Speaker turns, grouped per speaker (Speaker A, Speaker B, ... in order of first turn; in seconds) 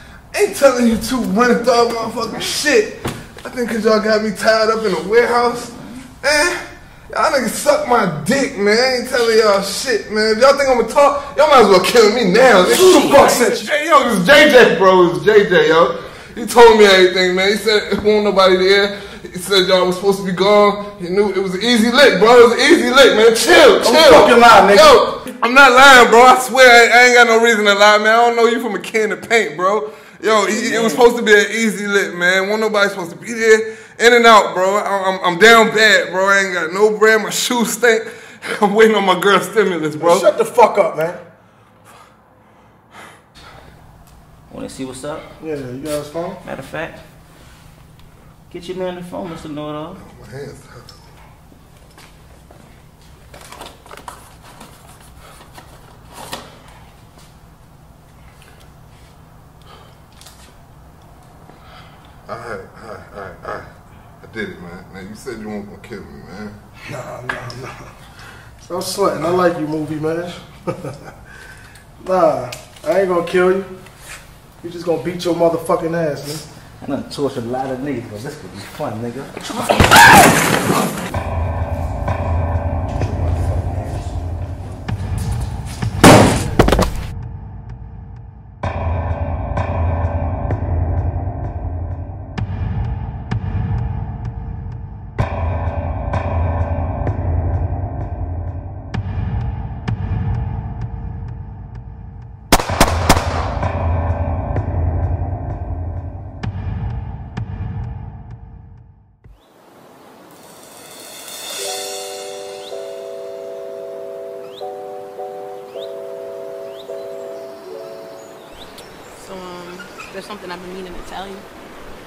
Speaker A: 0.3-40.3, 49.9-50.9, 62.3-66.6
Speaker B: 2.2-2.6, 44.5-45.3, 46.4-47.2, 48.5-50.0, 76.8-81.0, 82.9-84.2
Speaker C: 12.6-13.7, 23.8-25.2, 40.0-41.2, 45.4-46.4, 66.8-68.0, 68.6-71.1, 72.0-73.8, 74.6-76.4
Speaker D: 119.2-121.5